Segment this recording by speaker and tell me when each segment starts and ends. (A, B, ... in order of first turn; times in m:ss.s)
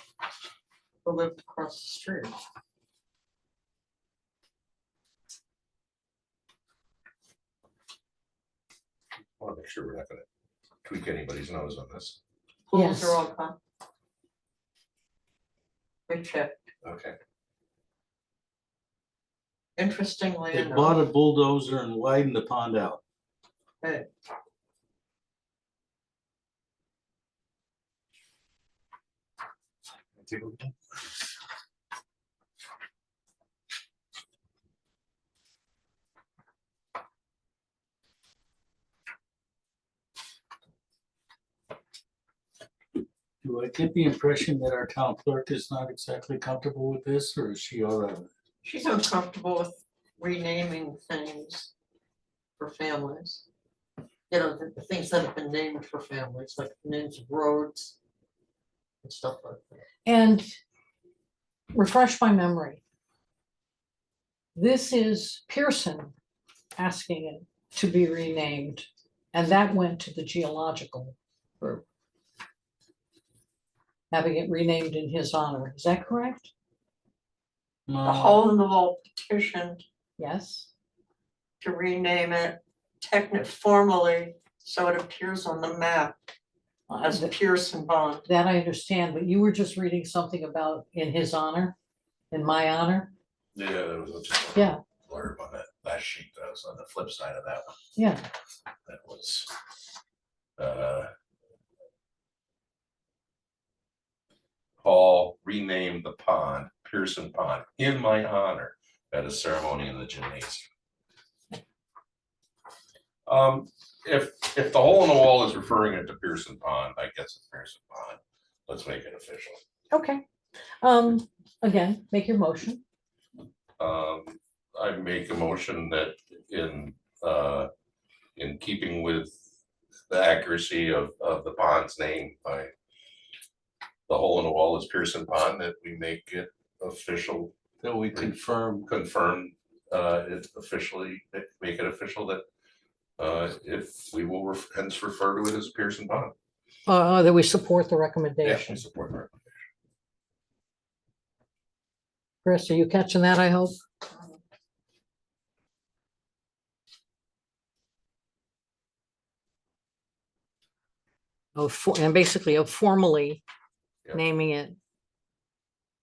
0:01.0-0:02.4 A
0:09.4-0:10.2 B
0:10.8-0:12.2 B
0:12.7-0:13.6 A
0:12.7-0:13.2 C
0:16.1-0:16.7 A
0:16.8-0:17.2 B
0:19.8-0:21.0 A
0:20.5-0:23.0 D
0:23.8-0:24.1 A
0:30.2-0:30.7 B
0:43.4-0:48.3 D
0:48.6-0:51.7 A
0:52.6-0:53.4 A
0:54.3-0:58.0 A
0:59.0-0:59.8 A
1:00.1-1:00.5 C
1:01.7-1:02.8 C
1:04.6-1:06.1 C
1:06.8-1:11.8 C
1:14.1-1:16.5 C
1:17.9-1:18.4 D
1:18.0-1:19.8 A
1:20.2-1:20.7 C
1:21.6-1:26.2 A
1:26.9-1:27.3 C
1:27.0-1:28.3 A
1:28.2-1:31.8 C
1:32.3-1:33.1 C
1:33.6-1:37.7 B
1:38.0-1:38.2 C
1:38.9-1:39.5 B
1:40.6-1:41.1 B
1:44.8-1:50.6 B
1:53.3-1:59.6 B
1:59.9-2:00.2 C
2:00.8-2:02.8 C
2:03.8-2:07.7 B
2:08.4-2:09.4 B
2:10.1-2:12.7 B
2:14.1-2:17.5 B
2:17.8-2:18.9 D
2:18.8-2:22.4 B
2:23.2-2:26.3 B
2:26.9-2:28.8 C
2:28.4-2:29.3 B
2:32.4-2:33.8 C
2:41.6-2:43.4 C
2:44.1-2:44.8 C